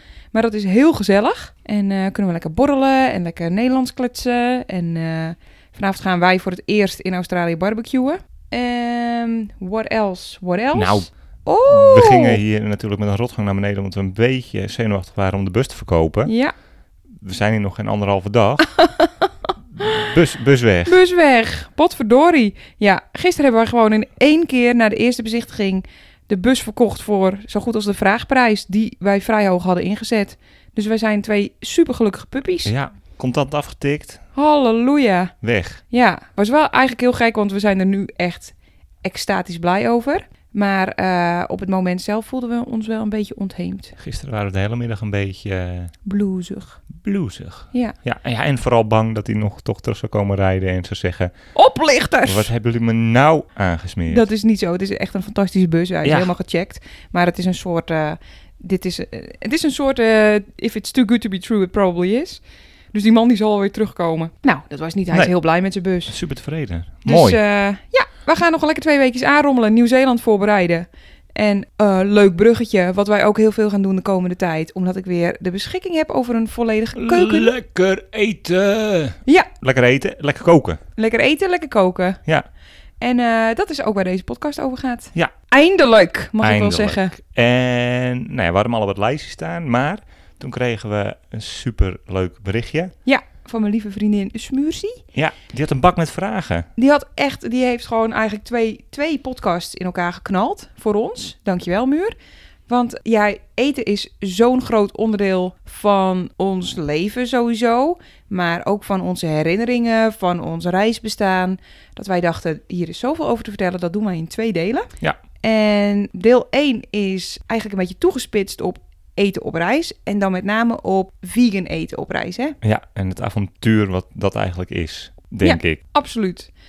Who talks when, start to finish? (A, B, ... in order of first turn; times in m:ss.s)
0:00.3-0:12.4 A
0:10.7-0:11.1 B
0:11.7-0:16.3 B
0:16.2-0:16.5 A
0:17.2-0:18.7 B
0:18.7-0:20.1 A
0:19.8-0:21.0 B
0:20.9-0:32.7 A
0:32.6-0:34.2 B
0:34.3-0:35.3 A
0:35.4-0:35.8 B
0:35.9-0:44.0 A
0:44.0-0:45.9 B
0:46.0-0:46.8 A
0:47.0-0:51.3 B
0:51.5-0:52.5 A
0:52.2-0:54.2 B
0:54.1-1:02.4 A
0:56.0-0:56.3 B
1:02.9-1:06.2 A
1:06.1-1:07.4 B
1:07.0-1:17.5 A
1:16.9-1:20.8 B
1:21.0-1:22.2 A
1:23.0-1:27.1 A
1:26.4-1:32.9 B
1:33.0-1:35.0 A
1:35.1-1:36.7 B
1:36.8-1:42.1 A
1:42.7-1:54.9 A
1:55.4-2:02.6 A
2:02.6-2:05.8 B
2:05.4-2:06.5 A